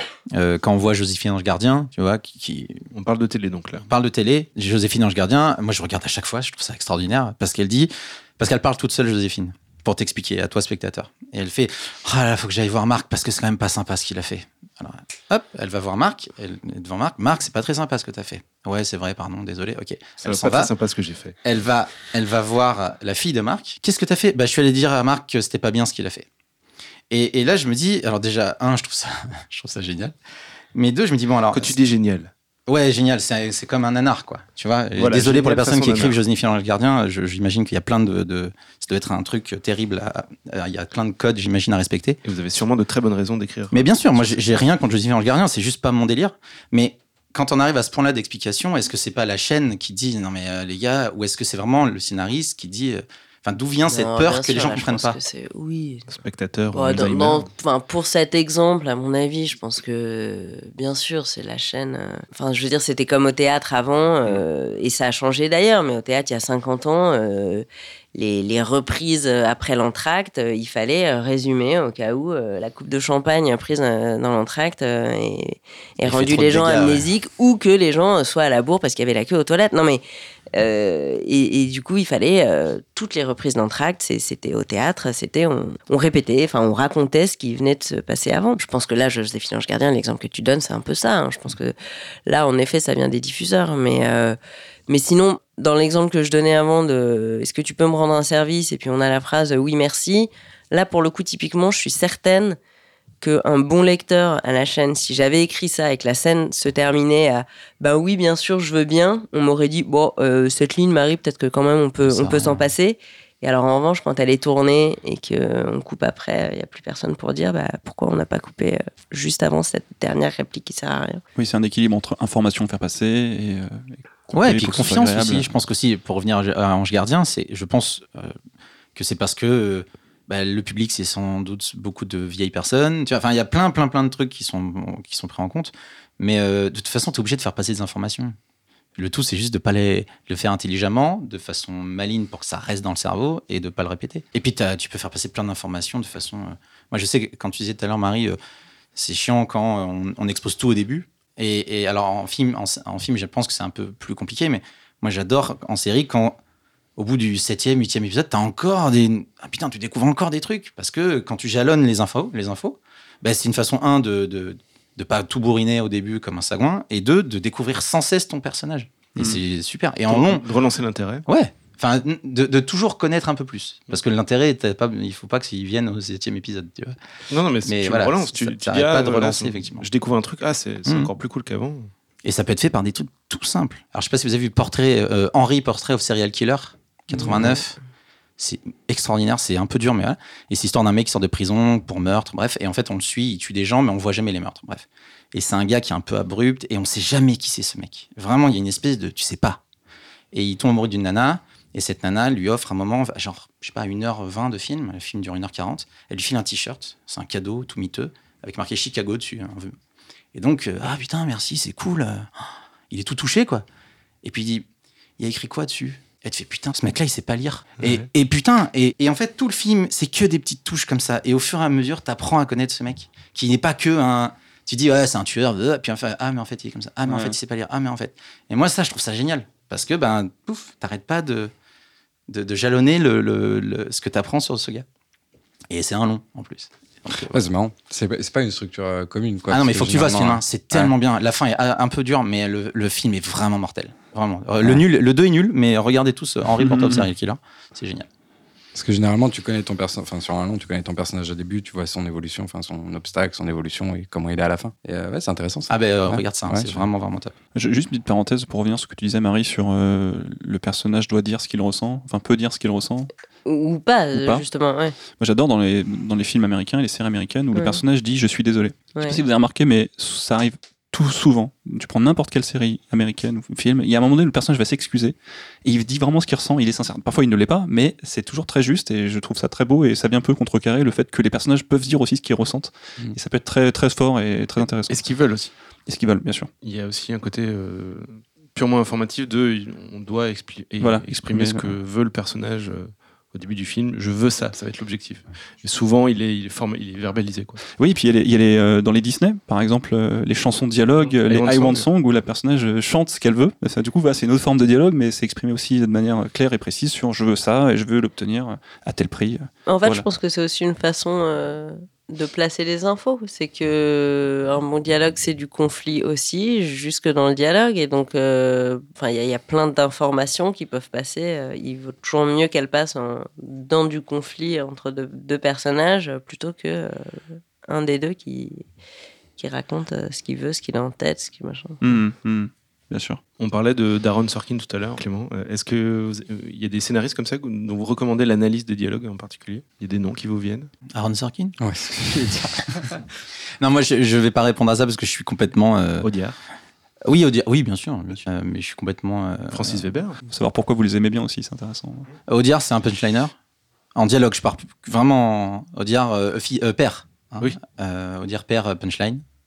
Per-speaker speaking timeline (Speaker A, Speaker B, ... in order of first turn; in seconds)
Speaker A: 0.3-2.9, 3.9-20.7, 21.4-26.3, 27.1-30.1, 30.7-31.8, 32.7-42.2, 43.7-55.2, 76.0-77.0, 112.0-112.6, 124.3-128.4, 128.9-138.4, 139.0-148.4, 149.0-156.4, 157.0-170.5, 171.3-177.0, 177.6-179.9, 180.9-181.1, 182.2-187.8, 188.4-199.6, 200.3-209.8, 210.3-213.7, 214.2-214.7, 215.2-231.5, 232.3-234.8, 235.7-237.4, 239.5-248.1, 255.7-257.4, 340.9-341.6, 343.6-346.1, 347.1-349.9, 352.3-353.3, 353.9-359.2
Speaker B: 2.9-3.9, 20.2-21.4, 31.5-32.3, 35.0-36.2, 42.2-44.6, 56.1-57.5, 170.1-171.2, 177.3-181.9, 187.2-187.6, 217.8-218.1, 284.9-285.5, 286.6-297.6, 301.0-301.9, 333.4-340.7, 346.0-346.4, 349.5-350.2
Speaker C: 53.9-56.1, 56.7-80.0, 80.5-91.8, 92.3-94.4, 94.9-102.6, 103.2-121.2, 263.4-265.0, 267.6-267.8, 268.9-269.2, 309.7-328.6, 329.4-331.8
Speaker D: 121.3-125.5, 227.1-227.3, 246.6-247.1, 257.6-263.1, 264.1-264.4, 265.2-285.1, 285.9-286.5, 290.8-291.8, 297.8-310.1, 331.8-333.2, 350.3-352.1
Speaker E: 237.3-240.9, 248.7-256.9, 341.6-342.9